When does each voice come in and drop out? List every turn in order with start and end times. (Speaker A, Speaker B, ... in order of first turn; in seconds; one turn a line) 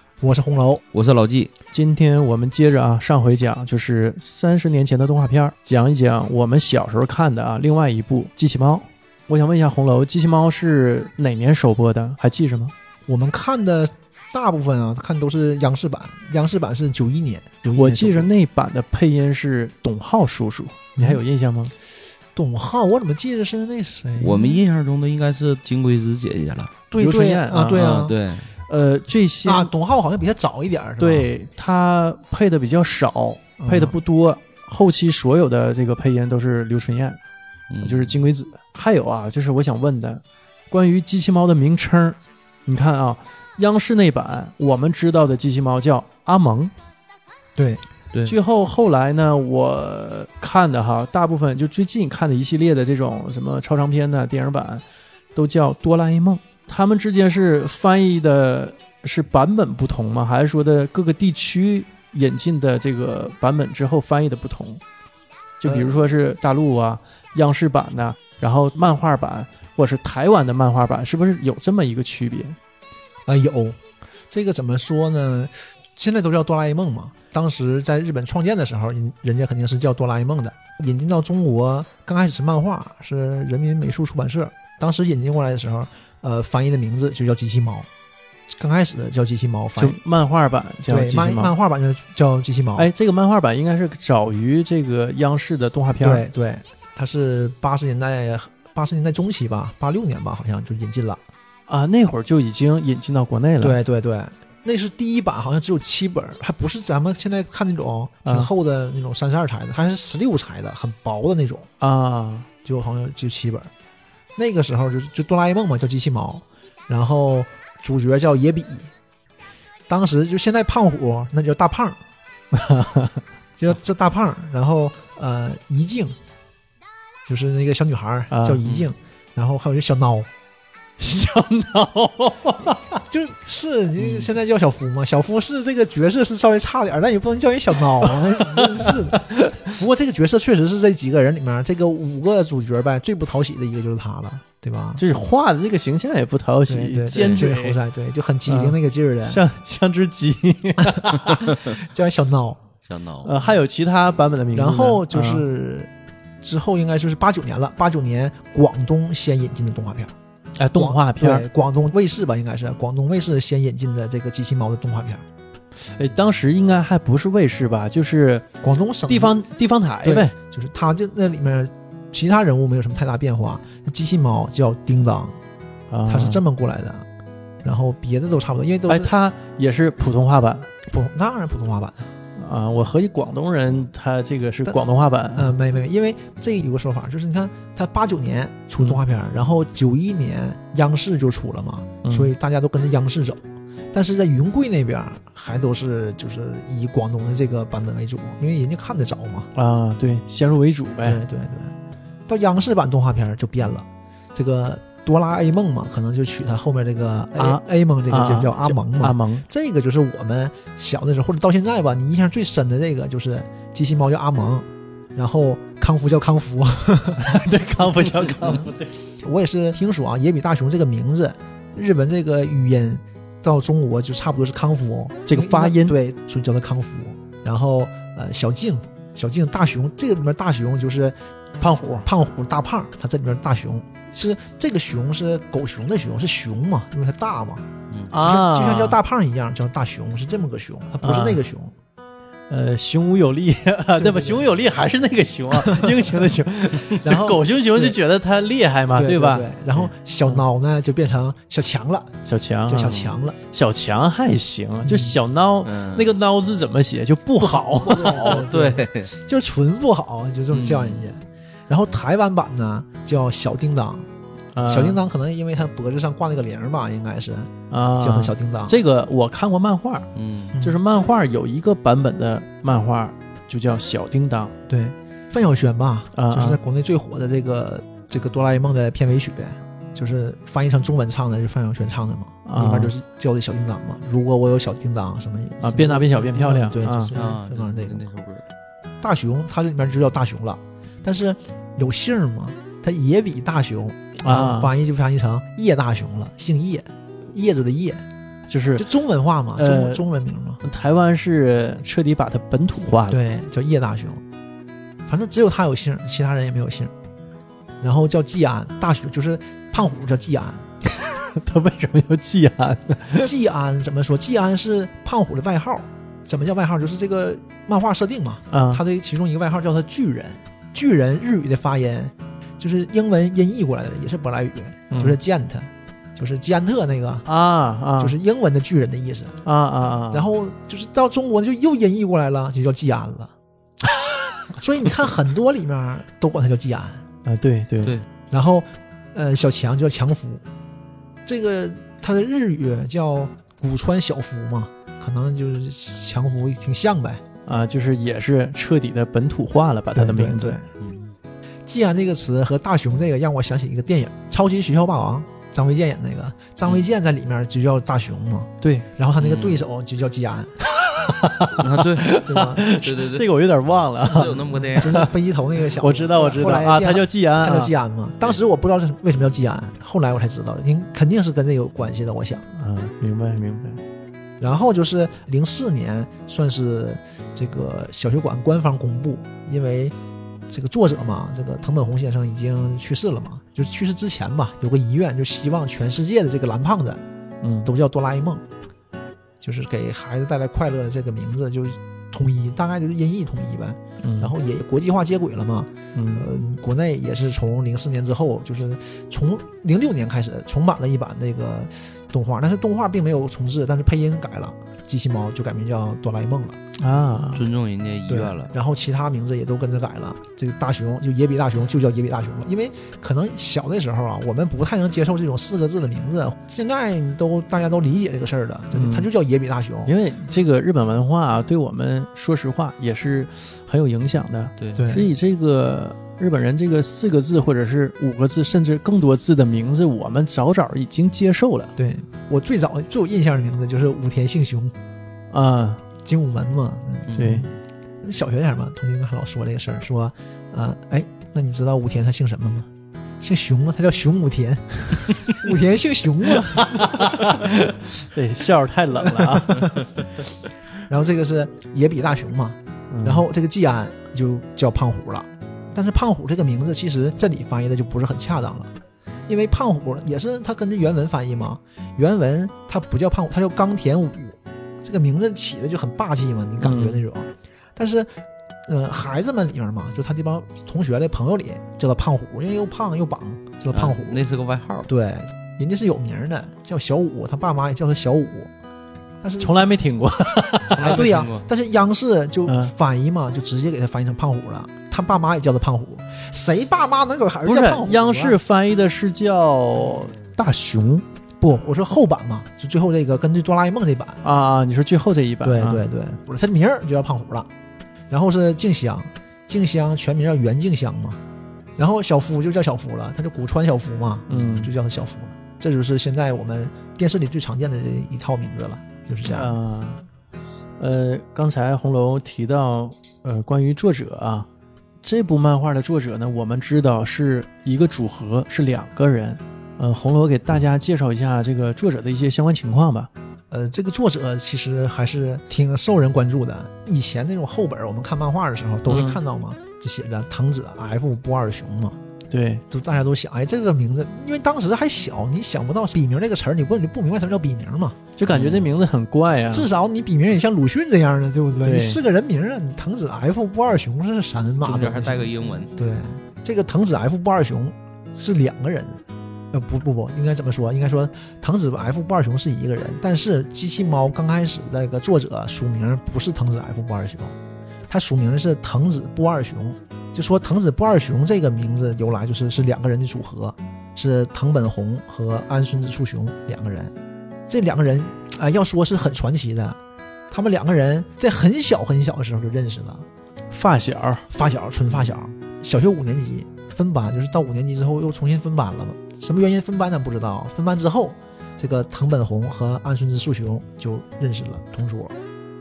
Speaker A: 0.2-0.8
Speaker B: 0.9-1.5
Speaker C: 1.7-12.7
Speaker A: 13.1-18.3
Speaker C: 17.7-21.7
Speaker A: 22.3-24.6
Speaker B: 24.2-26.8
Speaker A: 26.9-28.1
Speaker C: 27.0-27.9
Speaker B: 27.7-28.5
Speaker C: 28.7-29.7
Speaker A: 29.4-31.3
Speaker C: 31.0-37.2
Speaker A: 33.6-34.0
Speaker B: 37.7-38.1
Speaker C: 37.8-46.7
Speaker A: 47.6-47.8
Speaker C: 48.2-54.8
Speaker C: 55.3-64.8
Speaker C: 65.6-72.6
Speaker A: 65.6-66.0
Speaker A: 73.3-73.8
Speaker A: 74.3-87.9
Speaker A: 88.5-90.0
Speaker C: 89.8-91.5
Speaker A: 90.9-92.9
Speaker C: 92.8-96.2
Speaker A: 96.0-101.2
Speaker C: 101.7-103.8
Speaker A: 103.6-111.7
Speaker C: 111.8-112.5
Speaker A: 112.6-113.7
Speaker A: 114.3-118.9
Speaker A: 119.9-122.0
Speaker C: 122.5-123.2
Speaker A: 123.6-126.2
Speaker A: 127.2-130.3
Speaker C: 128.3-128.6
Speaker C: 131.0-132.9
Speaker A: 132.9-145.0
Speaker C: 138.1-139.8
Speaker C: 145.0-147.8
Speaker A: 146.7-149.4
Speaker C: 148.5-151.5
Speaker A: 150.8-152.6
Speaker B: 152.9-153.3
Speaker C: 153.2-155.4
Speaker A: 154.5-160.1
Speaker C: 160.6-161.4
Speaker A: 160.7-165.2
Speaker C: 165.8-168.5
Speaker A: 168.6-169.4
Speaker C: 169.1-170.3
Speaker A: 170.0-175.4
Speaker C: 175.9-176.4
Speaker A: 176.1-177.1
Speaker A: 177.6-179.1
Speaker C: 178.9-180.7
Speaker A: 180.8-182.1
Speaker C: 182.3-185.5
Speaker A: 185.3-199.5
Speaker C: 192.0-192.3
Speaker C: 199.5-201.2
Speaker A: 201.0-201.7
Speaker A: 202.3-218.7
Speaker C: 207.4-209.4
Speaker C: 217.2-218.9
Speaker A: 219.2-231.2
Speaker C: 225.3-226.0
Speaker C: 231.6-232.1
Speaker A: 231.7-241.7
Speaker C: 238.1-239.0
Speaker C: 241.0-241.4
Speaker C: 242.5-249.5
Speaker A: 244.0-244.5
Speaker A: 245.5-246.3
Speaker A: 247.0-248.0
Speaker A: 248.9-252.2
Speaker C: 252.2-258.4
Speaker A: 252.7-253.4
Speaker A: 254.8-255.2
Speaker B: 255.6-256.1
Speaker A: 257.4-264.1
Speaker B: 257.9-259.1
Speaker B: 260.5-261.0
Speaker C: 264.5-265.0
Speaker A: 264.6-268.8
Speaker C: 267.7-270.1
Speaker B: 270.1-270.6
Speaker A: 270.5-270.8
Speaker C: 270.6-274.5
Speaker A: 274.7-288.1
Speaker C: 276.1-276.6
Speaker C: 282.4-282.9
Speaker C: 285.6-287.1
Speaker B: 287.1-288.4
Speaker A: 289.0-298.0
Speaker C: 294.2-294.7
Speaker C: 298.5-298.9
Speaker A: 298.8-300.6
Speaker C: 299.6-300.0
Speaker C: 300.6-303.2
Speaker A: 303.1-304.2
Speaker A: 305.1-306.9
Speaker A: 307.8-310.7
Speaker C: 311.0-313.3
Speaker A: 313.2-327.2
Speaker C: 318.5-318.8
Speaker C: 324.9-325.2
Speaker C: 327.2-328.2
Speaker A: 328.0-329.4
Speaker C: 329.4-330.3
Speaker A: 330.1-333.3
Speaker A: 334.6-337.0
Speaker C: 337.2-337.9
Speaker A: 338.3-340.4
Speaker A: 341.2-347.2
Speaker C: 347.4-350.6
Speaker A: 349.9-350.7
Speaker B: 350.8-351.1
Speaker A: 351.7-360.6
Speaker C: 358.6-358.9
Speaker B: 359.2-359.6
Speaker C: 360.9-365.1
Speaker B: 361.6-363.3
Speaker A: 362.2-362.7
Speaker B: 364.0-365.0
Speaker A: 364.5-372.5
Speaker C: 365.8-367.7
Speaker C: 372.6-373.8
Speaker A: 374.4-379.9
Speaker A: 380.5-387.0
Speaker C: 387.4-387.7
Speaker A: 387.6-388.4
Speaker A: 389.4-406.6
Speaker C: 394.0-394.3
Speaker C: 395.9-396.3
Speaker C: 406.8-407.4
Speaker B: 407.3-408.5
Speaker A: 408.1-419.9
Speaker C: 418.7-419.1
Speaker C: 419.8-431.7
Speaker A: 424.7-425.1
Speaker A: 431.8-434.7
Speaker C: 435.3-435.8
Speaker A: 436.0-437.5
Speaker B: 437.1-437.4
Speaker C: 437.1-437.5
Speaker A: 438.0-442.7
Speaker A: 443.2-447.5
Speaker C: 446.6-449.9
Speaker A: 449.1-449.9
Speaker A: 450.9-458.7
Speaker C: 452.9-453.2
Speaker A: 459.3-468.1
Speaker C: 466.6-467.0
Speaker A: 468.7-474.2
Speaker B: 473.7-474.9
Speaker A: 474.9-478.5
Speaker A: 479.2-479.5
Speaker C: 479.4-481.1
Speaker B: 480.7-481.5
Speaker A: 480.8-488.4
Speaker C: 482.4-482.7
Speaker C: 487.4-491.0
Speaker A: 491.4-494.2
Speaker C: 494.2-495.8
Speaker A: 495.4-497.5
Speaker A: 498.1-501.2
Speaker A: 501.8-509.5
Speaker C: 504.3-504.7
Speaker C: 509.2-510.0
Speaker C: 510.8-514.5
Speaker C: 515.0-523.1
Speaker A: 523.5-532.0
Speaker C: 528.9-529.2
Speaker C: 532.3-532.6
Speaker A: 532.7-538.0
Speaker C: 538.2-539.7
Speaker B: 538.3-538.6
Speaker A: 539.5-557.4
Speaker C: 541.6-542.0
Speaker B: 544.6-545.7
Speaker A: 557.9-566.9
Speaker A: 567.5-569.8
Speaker A: 570.3-573.0
Speaker C: 573.5-574.2
Speaker A: 574.3-585.1